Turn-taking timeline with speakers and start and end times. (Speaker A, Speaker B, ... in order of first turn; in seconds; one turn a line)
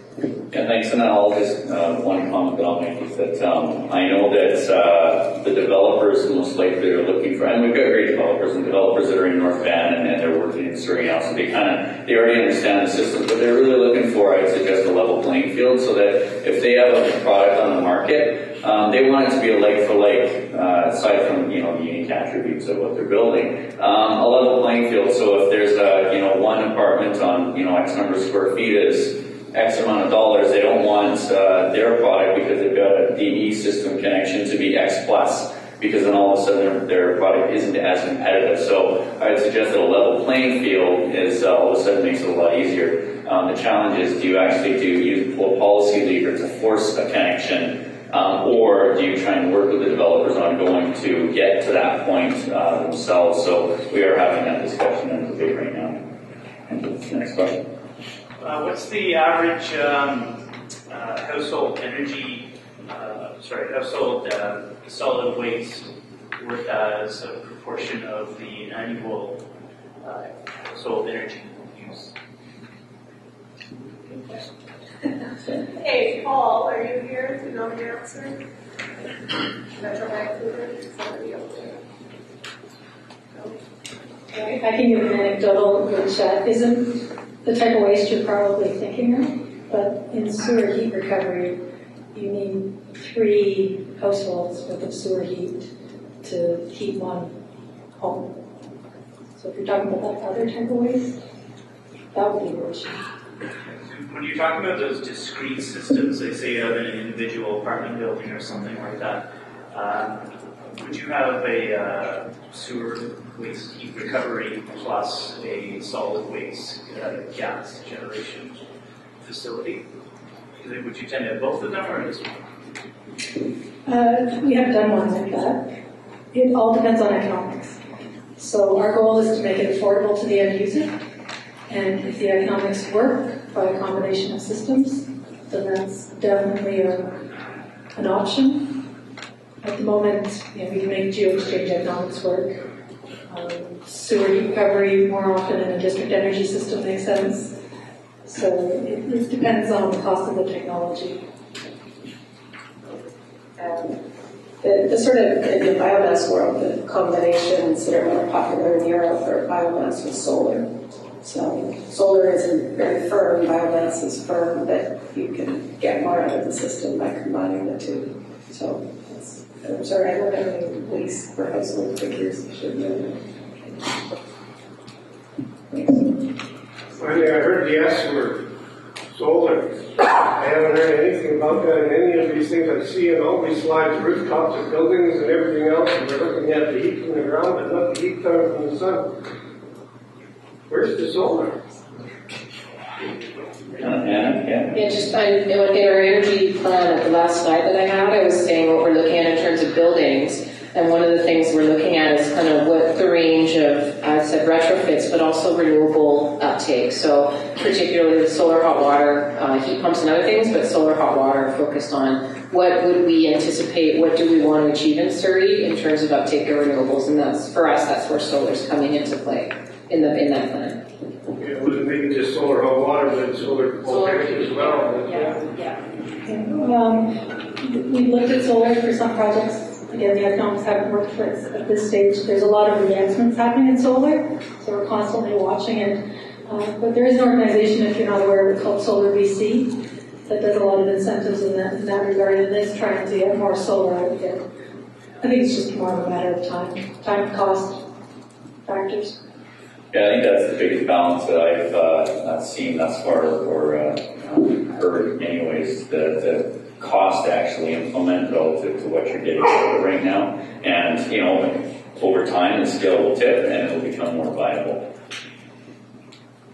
Speaker A: 0.5-56.0
Speaker A: 56.7-57.6
Speaker B: 58.4-69.4
Speaker B: 70.0-72.1
Speaker C: 75.5-78.4
Speaker C: 79.7-81.8
Speaker D: 84.3-91.6
Speaker D: 92.1-95.7
Speaker D: 96.2-97.3
Speaker D: 98.0-98.3
Speaker D: 99.4-101.2
Speaker D: 102.1-103.0
Speaker B: 103.8-110.2
Speaker B: 110.8-118.6
Speaker B: 119.2-119.8
Speaker B: 120.6-122.3
Speaker D: 123.8-125.7
Speaker D: 126.3-127.8
Speaker D: 128.4-130.9
Speaker D: 131.7-137.2
Speaker D: 137.9-138.8
Speaker D: 139.6-142.6
Speaker D: 143.3-147.5
Speaker D: 148.2-151.2
Speaker C: 153.6-154.0
Speaker C: 154.6-173.2
Speaker E: 177.0-178.5
Speaker E: 179.1-189.1
Speaker E: 190.7-191.8
Speaker A: 193.8-194.8
Speaker F: 194.7-220.8
Speaker E: 221.3-225.4
Speaker F: 223.8-225.7
Speaker D: 226.2-244.4
Speaker D: 245.2-247.8
Speaker D: 248.6-249.2
Speaker A: 249.9-264.8